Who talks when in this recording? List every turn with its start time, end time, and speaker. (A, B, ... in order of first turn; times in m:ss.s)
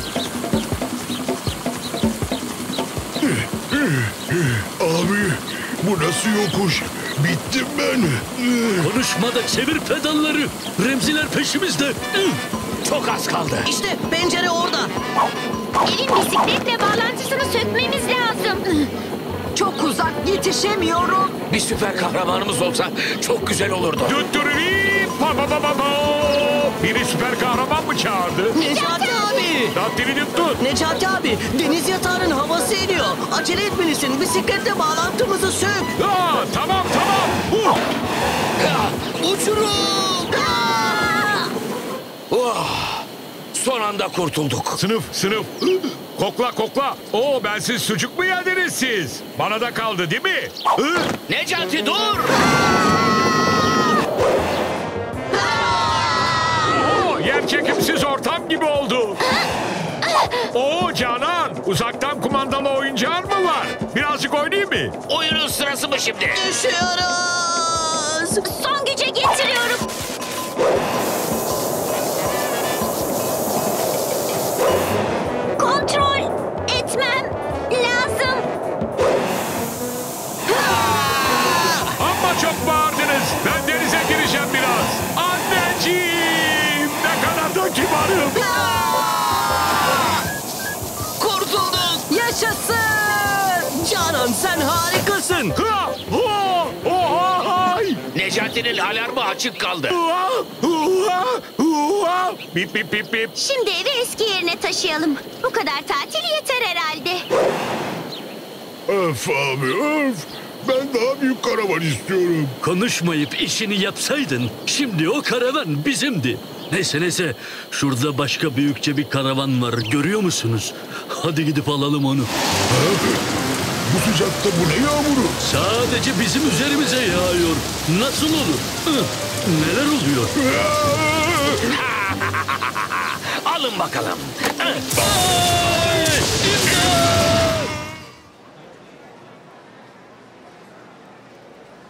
0:03.2-0:08.9 A
0:08.8-0:12.4 B
0:12.8-0:13.7 C
0:13.6-0:14.9 D
0:15.8-0:18.6 E
0:19.5-0:21.4 F
0:21.5-0:24.2 C
0:24.0-0:28.6 G
0:28.6-0:29.8 D
0:28.6-0:29.6 E
0:29.7-0:30.6 G
0:30.6-0:35.9 D
0:36.0-0:37.8 G
0:38.6-0:41.1 C
0:42.3-0:44.8 C
0:44.8-0:51.1 G
0:51.3-0:52.4 C
0:55.7-0:56.1 C
0:56.7-0:59.2 G
1:00.5-1:05.0 G
1:05.1-1:06.4 C
1:06.3-1:08.4 D
1:08.4-1:09.9 E
1:15.6-1:18.5 E
1:22.0-1:28.5 G
1:28.5-1:29.4 D
1:28.6-1:29.0 C
1:31.2-1:32.0 C
1:32.1-1:33.6 F
1:33.7-1:35.6 D
1:35.6-1:38.0 G
1:38.1-1:40.0 C
1:39.9-1:43.3 G
1:43.4-1:47.3 E
1:48.9-1:52.6 A
1:52.6-2:02.3 B
2:02.8-2:03.0 A
2:03.9-2:05.4 A
2:05.4-2:10.4 B
2:10.5-2:11.2 A
2:11.7-2:14.9 C
2:15.3-2:16.0 B